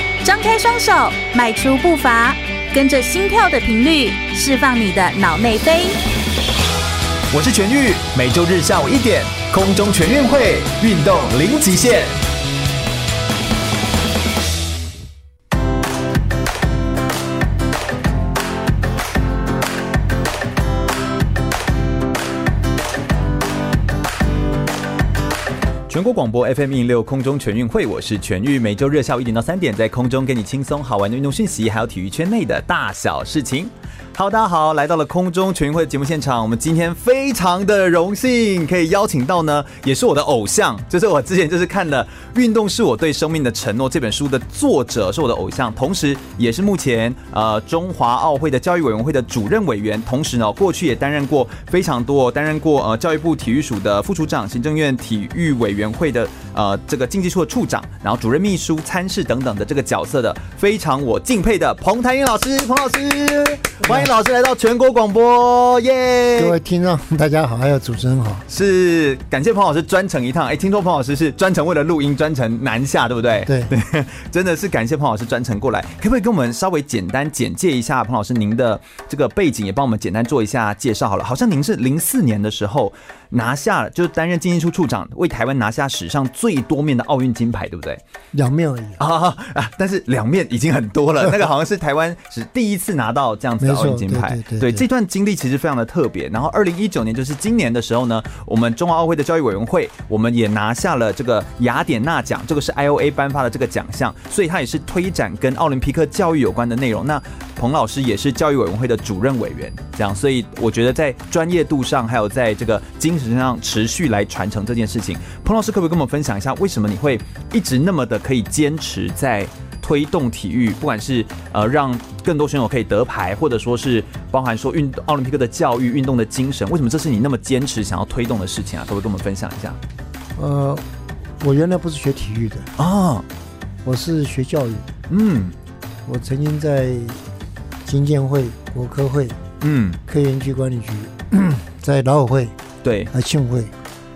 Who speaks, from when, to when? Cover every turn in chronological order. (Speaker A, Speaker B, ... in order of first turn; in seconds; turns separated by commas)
Speaker A: 0.2-6.0, Speaker B: 7.3-12.1, Speaker B: 25.9-66.5, Speaker C: 63.8-64.1, Speaker C: 66.3-68.5, Speaker B: 68.5-88.0, Speaker C: 73.5-73.7, Speaker C: 88.3-89.0, Speaker B: 89.0-129.8, Speaker C: 93.6-94.8, Speaker C: 130.3-130.8, Speaker C: 131.4-132.7, Speaker B: 132.8-133.2, Speaker C: 133.8-134.8, Speaker B: 135.1-135.6, Speaker C: 136.1-137.2, Speaker C: 137.8-139.4, Speaker B: 139.6-140.0, Speaker C: 140.1-142.6, Speaker B: 142.8-143.1, Speaker C: 143.1-143.7